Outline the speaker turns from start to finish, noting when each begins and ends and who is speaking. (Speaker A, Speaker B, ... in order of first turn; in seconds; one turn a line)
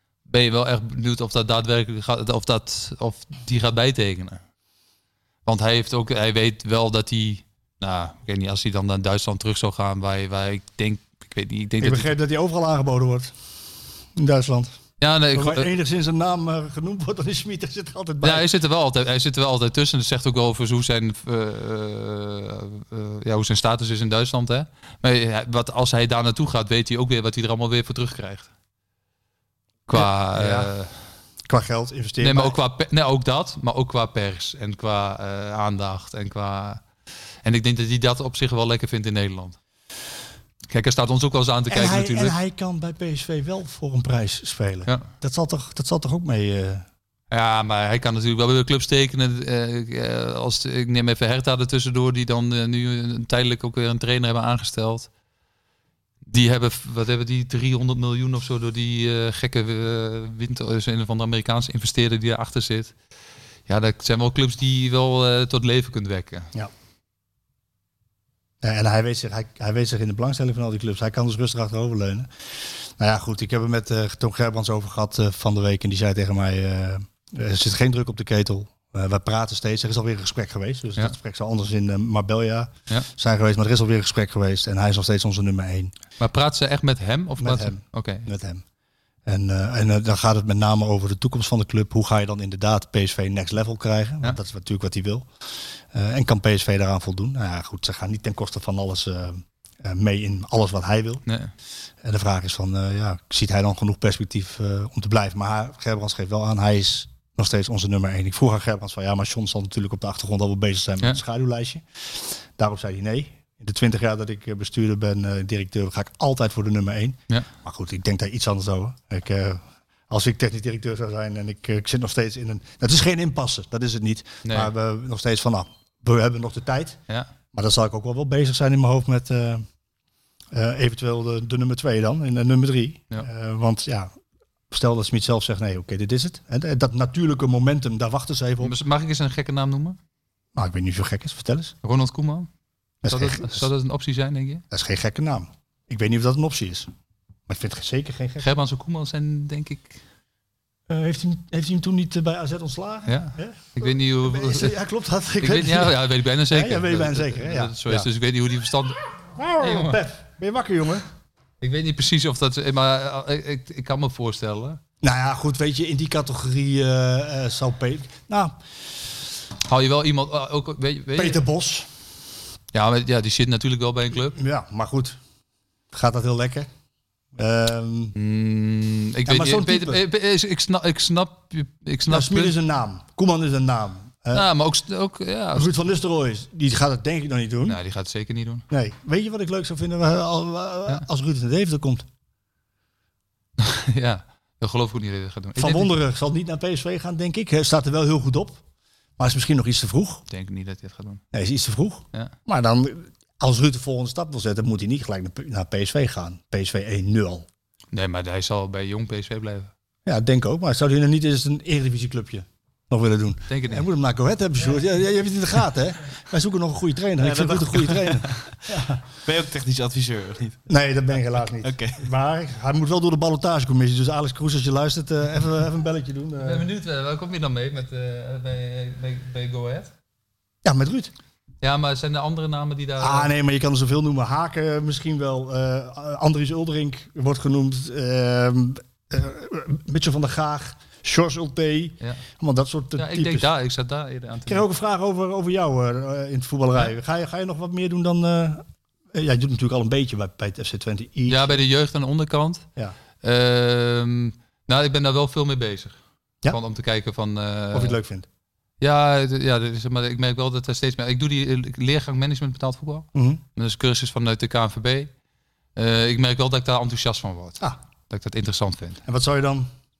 Speaker A: 0.3-4.4
Speaker A: 5.4-12.1
Speaker B: 11.8-13.3
Speaker B: 14.2-14.7
Speaker A: 15.0-15.7
Speaker B: 15.3-18.5
Speaker A: 18.2-28.5
Speaker A: 29.9-30.9
Speaker B: 29.9-30.7
Speaker B: 31.4-32.6
Speaker A: 32.2-36.8
Speaker A: 37.4-39.6
Speaker A: 40.7-42.4
Speaker B: 41.7-46.9
Speaker A: 47.3-55.1
Speaker A: 56.2-62.9
Speaker A: 63.7-66.5
Speaker B: 68.6-85.9
Speaker A: 86.2-88.3
Speaker B: 87.4-88.6
Speaker B: 89.2-95.3
Speaker B: 95.9-101.2
Speaker A: 101.2-101.5
Speaker B: 102.0-127.0
Speaker A: 124.4-124.7
Speaker B: 127.5-129.6
Speaker B: 130.5-134.1
Speaker B: 134.7-138.8
Speaker A: 138.6-140.0
Speaker B: 140.5-141.7
Speaker A: 141.8-142.5
Speaker B: 143.0-143.7
Speaker A: 143.1-144.6
Speaker B: 144.7-146.9
Speaker B: 147.5-148.5
Speaker A: 148.4-150.0
Speaker B: 150.9-158.1
Speaker A: 153.1-154.8
Speaker A: 155.4-159.0
Speaker B: 159.4-161.0
Speaker A: 159.6-160.0
Speaker A: 161.6-164.8
Speaker B: 165.0-168.6
Speaker A: 169.7-171.4
Speaker B: 171.1-171.9
Speaker A: 172.7-174.3
Speaker B: 174.3-175.2
Speaker B: 175.9-176.7
Speaker B: 177.3-178.2
Speaker A: 178.1-182.6
Speaker B: 179.2-180.0
Speaker B: 182.1-184.5
Speaker A: 184.3-185.7
Speaker B: 185.5-187.8
Speaker A: 187.6-188.6
Speaker B: 188.7-192.1
Speaker A: 193.6-195.9
Speaker B: 195.6-198.6
Speaker B: 199.2-200.2
Speaker A: 200.3-201.2
Speaker B: 201.3-207.5
Speaker A: 207.9-209.7
Speaker B: 210.1-219.0
Speaker A: 213.5-213.8
Speaker C: 217.2-218.5
Speaker C: 219.2-220.6
Speaker B: 220.7-226.7
Speaker C: 221.6-222.0
Speaker A: 226.4-229.9
Speaker B: 230.6-231.1
Speaker A: 231.6-233.3
Speaker B: 233.0-243.5
Speaker A: 243.0-244.7
Speaker B: 244.4-251.6
Speaker A: 251.3-252.7
Speaker A: 253.2-258.0
Speaker B: 257.7-258.3
Speaker A: 258.8-265.1
Speaker B: 263.1-263.4
Speaker A: 265.8-269.0
Speaker B: 269.1-269.7